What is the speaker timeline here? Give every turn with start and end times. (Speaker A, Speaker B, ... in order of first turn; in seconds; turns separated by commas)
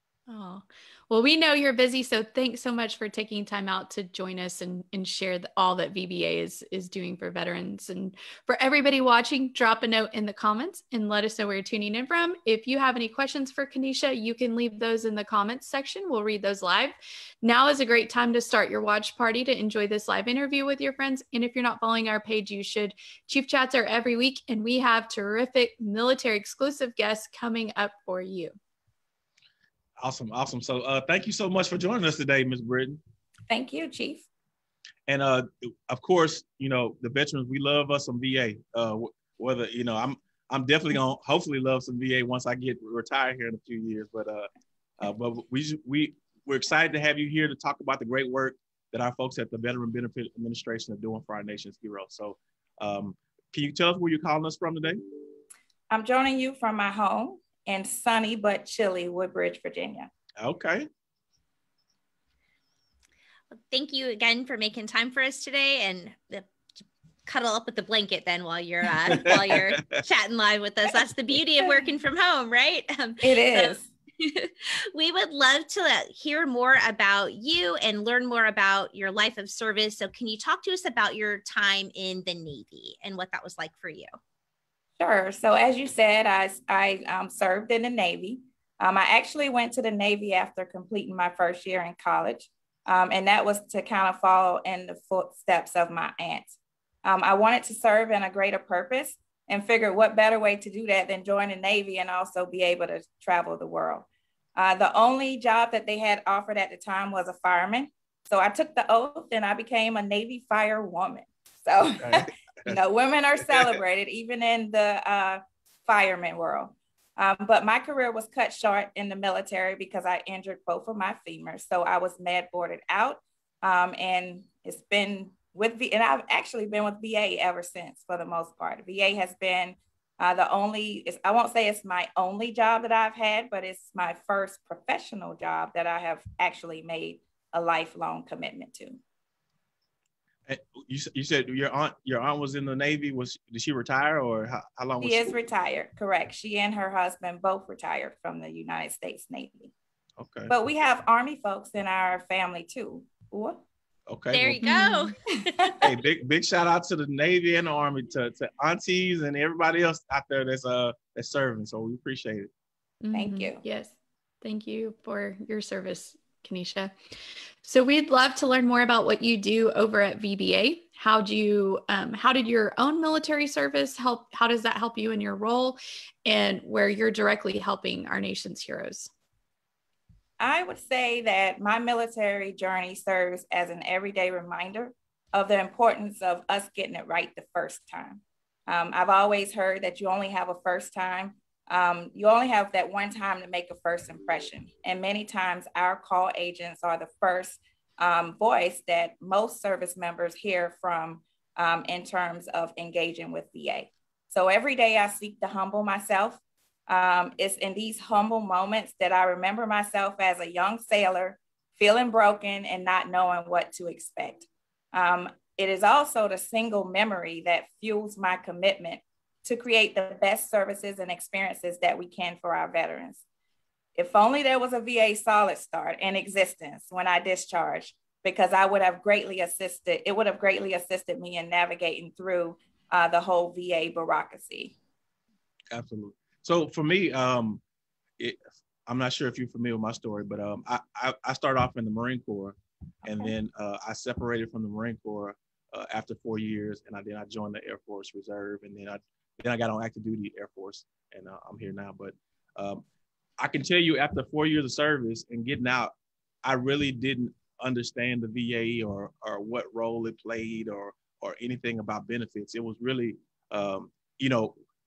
Speaker A: 0.3-28.5, Speaker B: 30.0-33.0, Speaker C: 33.5-34.3, Speaker B: 35.1-55.0, Speaker C: 55.9-60.1, Speaker B: 60.4-60.9, Speaker D: 63.7-66.5, Speaker D: 67.3-84.1, Speaker B: 69.2-70.0, Speaker C: 73.2-73.9, Speaker C: 85.0-139.0, Speaker B: 112.0-112.7, Speaker B: 140.5-145.3, Speaker C: 145.0-149.7, Speaker B: 150.2-150.5, Speaker C: 150.5-153.6, Speaker B: 154.1-154.6, Speaker D: 154.3-155.7, Speaker A: 154.6-155.1, Speaker B: 155.8-162.5, Speaker A: 163.0-166.9, Speaker C: 163.1-163.6, Speaker A: 167.6-179.1, Speaker C: 180.4-223.2, Speaker C: 224.0-234.8, Speaker B: 235.7-237.6, Speaker B: 238.2-252.8, Speaker B: 253.4-255.9, Speaker B: 256.4-264.6